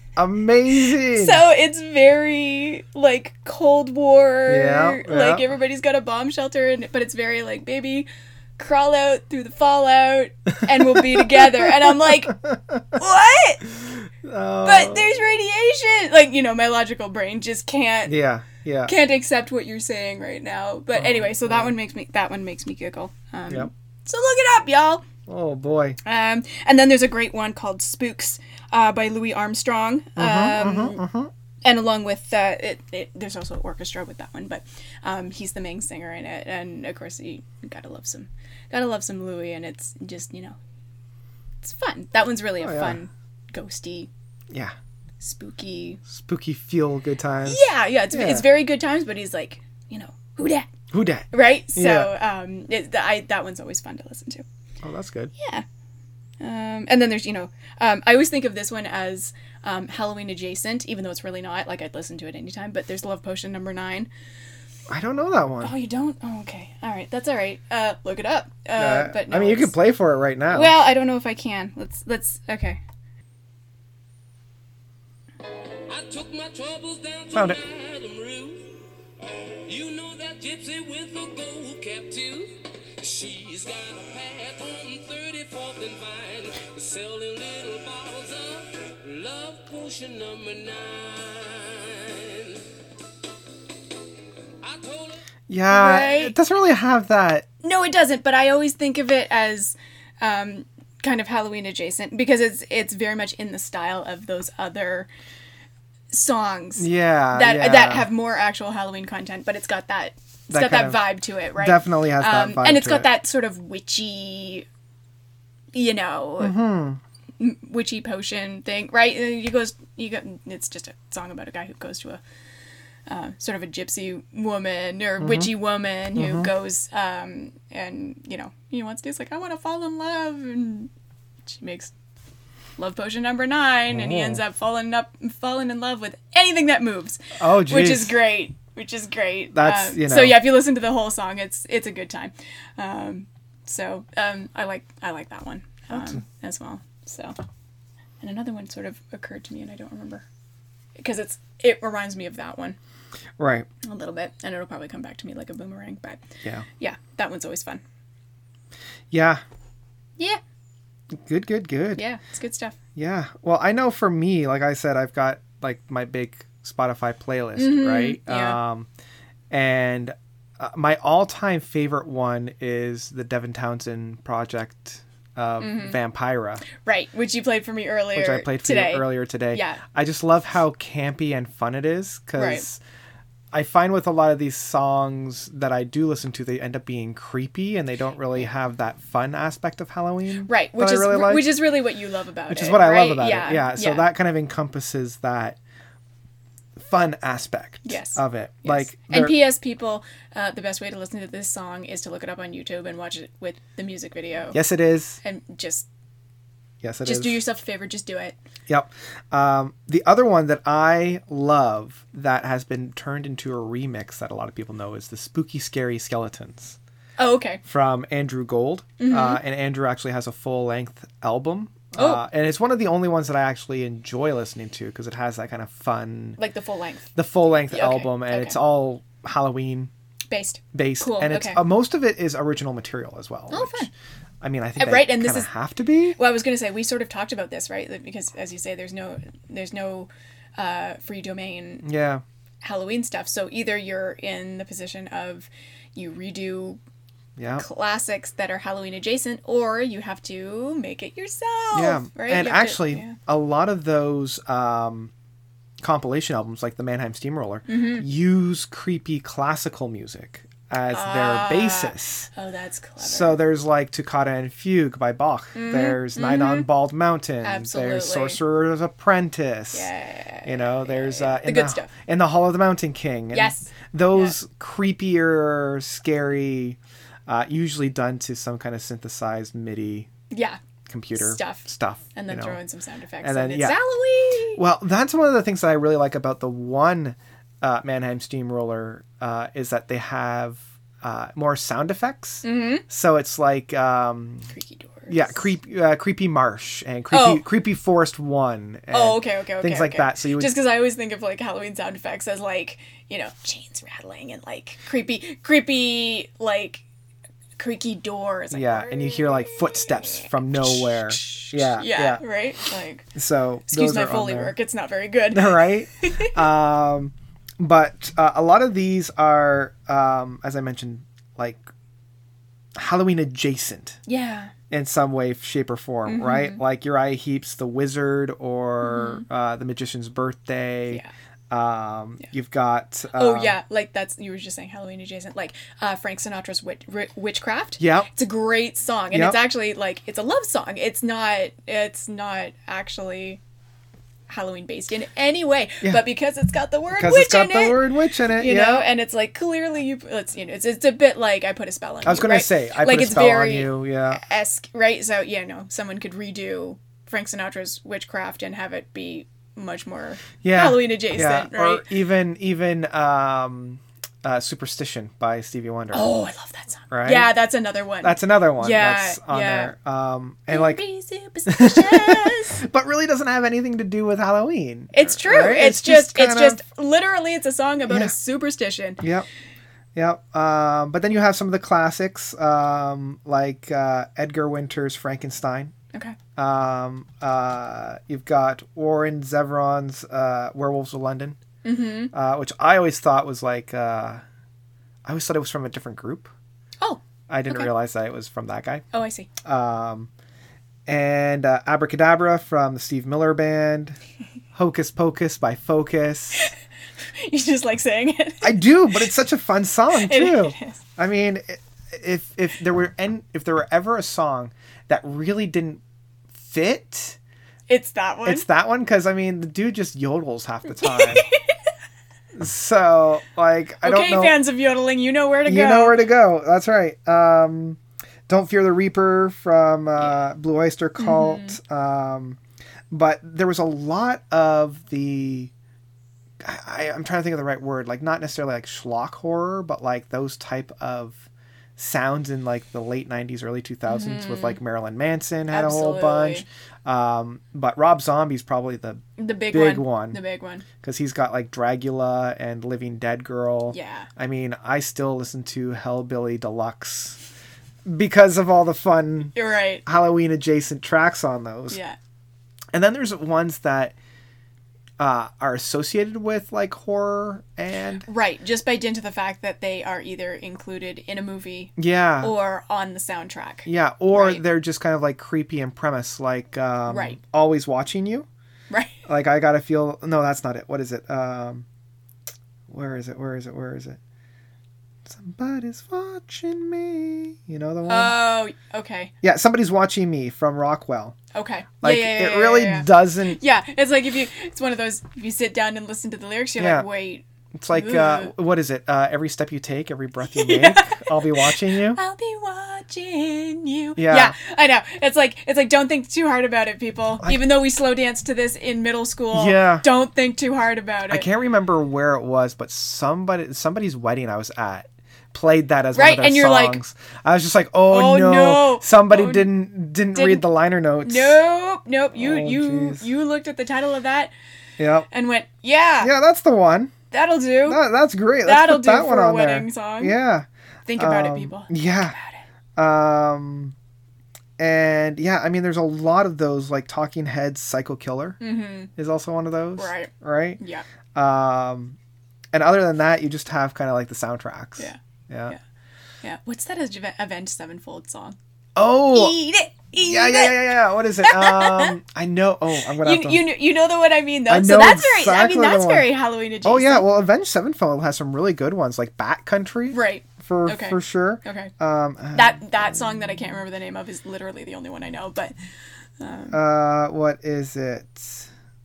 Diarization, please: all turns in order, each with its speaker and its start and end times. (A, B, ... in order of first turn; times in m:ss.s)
0:00.2-0:01.4 A
0:00.8-0:12.4 B
0:04.5-0:05.4 A
0:10.7-0:12.9 A
0:12.9-0:13.6 B
0:13.7-0:15.1 A
0:14.6-0:18.2 B
0:18.0-0:18.9 A
0:18.8-0:25.0 B
0:20.9-0:21.7 A
0:25.3-0:26.0 A
0:26.0-0:31.0 B
0:30.2-0:31.3 A
0:31.6-0:40.6 B
0:41.6-0:44.1 B
0:42.6-0:43.0 A
0:45.2-0:46.0 B
0:46.1-0:48.4 A
0:47.4-0:50.7 B
0:50.9-0:52.1 A
0:51.3-0:54.4 B
0:54.8-0:55.3 A
0:55.4-0:55.6 B
0:56.4-1:04.1 B
1:04.9-1:05.7 A
1:05.6-1:09.7 B
1:08.8-1:10.7 A
1:10.5-1:12.8 B
1:15.9-1:18.7 C
1:17.3-1:17.6 A
1:19.5-1:32.6 C
1:34.6-1:35.2 C
1:35.5-1:37.5 A
1:35.7-1:36.3 B
1:37.6-1:45.1 B
1:46.1-1:54.7 B
1:46.8-1:48.1 A
1:50.5-1:53.1 A
1:55.7-1:56.6 B
1:56.4-1:57.0 A
1:57.4-2:02.2 B
2:03.1-2:10.9 B
2:05.2-2:05.5 A
2:06.1-2:06.5 A
2:11.5-2:11.9 B
2:12.8-2:27.4 B
2:13.9-2:14.4 A
2:17.4-2:18.2 A
2:19.5-2:20.4 A
2:25.9-2:26.2 A
2:28.2-2:30.2 B
2:31.0-2:32.8 B
2:33.4-2:33.7 A
2:33.8-2:36.2 B
2:36.8-2:37.8 B
2:39.1-2:39.4 A
2:41.1-2:42.0 A
2:41.9-2:42.8 B
2:43.0-2:48.9 A
2:47.6-2:48.6 B
2:49.5-2:56.6 A
2:55.6-2:56.0 B
2:56.7-2:59.8 B
2:58.1-3:02.8 A
3:02.4-3:02.6 B
3:03.5-3:11.6 A
3:10.5-3:14.0 B
3:12.5-3:15.6 A
3:16.8-3:19.4 A
3:17.8-3:24.6 B
3:24.5-3:25.2 A
3:25.2-3:25.9 B
3:26.8-3:27.4 A
3:27.0-3:28.4 B
3:28.7-3:36.8 A
3:37.2-3:37.6 B
3:37.6-3:46.4 A
3:39.0-3:39.4 B
3:41.9-3:42.2 B
3:46.4-3:47.1 B
3:47.1-3:49.9 A
3:47.7-3:48.6 B
3:50.3-3:51.6 B
3:50.7-3:53.9 A
3:53.5-3:53.9 B
3:54.4-3:56.2 A
3:54.8-3:55.5 B
3:56.2-4:01.8 B
4:01.8-4:02.2 A
4:02.6-4:06.8 B
4:07.4-4:07.6 A
4:07.6-4:13.2 B
4:11.7-4:15.1 A
4:15.8-4:22.3 A
4:17.7-4:18.0 B
4:20.9-4:23.4 B
4:23.0-4:29.9 A
4:25.5-4:26.7 B
4:27.4-4:28.4 B
4:29.7-4:31.9 B
4:30.4-4:40.1 A
4:33.3-4:34.3 B
4:40.3-4:40.6 B
4:40.9-4:42.6 A
4:41.1-4:44.6 B
4:43.2-4:43.8 A
4:44.5-4:54.5 A
4:52.4-4:52.8 B
4:54.5-4:55.4 B
4:55.1-5:00.5 A
4:57.1-4:57.4 B
4:58.9-5:06.8 B
5:07.6-5:13.1 B
5:08.5-5:12.2 A
5:13.1-5:14.5 A
5:13.7-5:16.3 B
5:15.3-5:21.7 A
5:22.7-5:24.0 A
5:24.1-5:24.5 B
5:24.7-5:33.6 A
5:26.0-5:26.6 B
5:28.8-5:29.2 B
5:33.1-5:43.4 B
5:37.8-5:38.1 A
5:39.1-5:39.4 A
5:44.3-6:01.8 B
5:46.9-5:48.8 A
5:52.0-5:54.2 A
6:00.4-6:06.1 A
6:05.9-6:09.7 B
6:06.9-6:07.3 A
6:08.0-6:10.8 A
6:10.5-6:12.6 B
6:11.5-6:16.6 A
6:14.9-6:19.0 B
6:17.9-6:18.1 A
6:19.0-6:19.3 A
6:19.9-6:25.7 A
6:26.4-6:31.4 A
6:31.6-6:32.1 B
6:32.1-6:34.2 A
6:35.0-6:36.3 A
6:36.8-6:37.7 B
6:37.3-6:38.8 A
6:38.9-6:39.3 B
6:39.4-6:40.1 A
6:40.8-6:44.0 A
6:44.5-6:46.5 A
6:47.1-6:49.1 B
6:48.4-6:55.8 A
6:49.9-6:50.8 B
6:56.3-6:57.2 A
6:57.7-6:58.4 B
6:58.2-7:01.2 A
7:00.8-7:01.4 B
7:02.3-7:04.4 A
7:03.8-7:06.1 B
7:05.4-7:12.4 A
7:11.0-7:11.6 B
7:12.9-7:15.5 A
7:16.4-7:21.2 A
7:21.8-7:30.2 A
7:23.9-7:24.6 B
7:25.5-7:26.4 B
7:29.2-7:30.6 B
7:30.8-7:37.2 A
7:33.7-7:34.1 B
7:37.8-7:39.3 A
7:39.3-7:39.8 B
7:39.8-7:41.8 A
7:41.7-7:42.0 B
7:42.7-7:43.9 A
7:45.0-7:48.0 A
7:48.0-7:54.4 B
7:51.8-7:52.3 A
7:53.6-7:58.3 A
7:56.9-7:57.2 B
7:58.7-7:59.0 B
7:59.0-8:01.6 A
8:02.7-8:04.0 A
8:05.0-8:08.2 A
8:07.8-8:09.1 B
8:09.2-8:11.2 A
8:11.3-8:18.3 B
8:11.8-8:13.4 A
8:16.6-8:16.9 A
8:17.5-8:22.0 A
8:20.2-8:31.2 B
8:24.0-8:24.3 A
8:29.3-8:29.8 A
8:31.1-8:41.4 A
8:35.9-8:36.8 B
8:37.9-8:39.5 B
8:40.1-8:40.4 B
8:41.0-8:44.3 B
8:42.1-8:43.0 A
8:44.8-8:45.1 A
8:45.1-8:46.1 B
8:46.0-8:46.9 A
8:47.1-8:47.8 B
8:47.6-8:52.2 A
8:48.4-8:50.2 B
8:50.8-8:52.4 B
8:52.8-8:53.7 A
8:54.6-8:58.4 A
8:58.4-8:58.9 B
8:59.0-9:00.6 A
8:59.8-9:00.8 B
9:01.1-9:02.0 A
9:02.5-9:05.5 A
9:04.8-9:05.6 B
9:06.2-9:08.4 B
9:08.8-9:09.4 A
9:09.1-9:12.0 B
9:10.0-9:13.5 A
9:13.0-9:17.0 B
9:14.5-9:16.1 A
9:16.6-9:22.8 A
9:19.9-9:21.7 B
9:22.3-9:25.5 B
9:26.2-9:26.6 B
9:26.5-9:28.5 A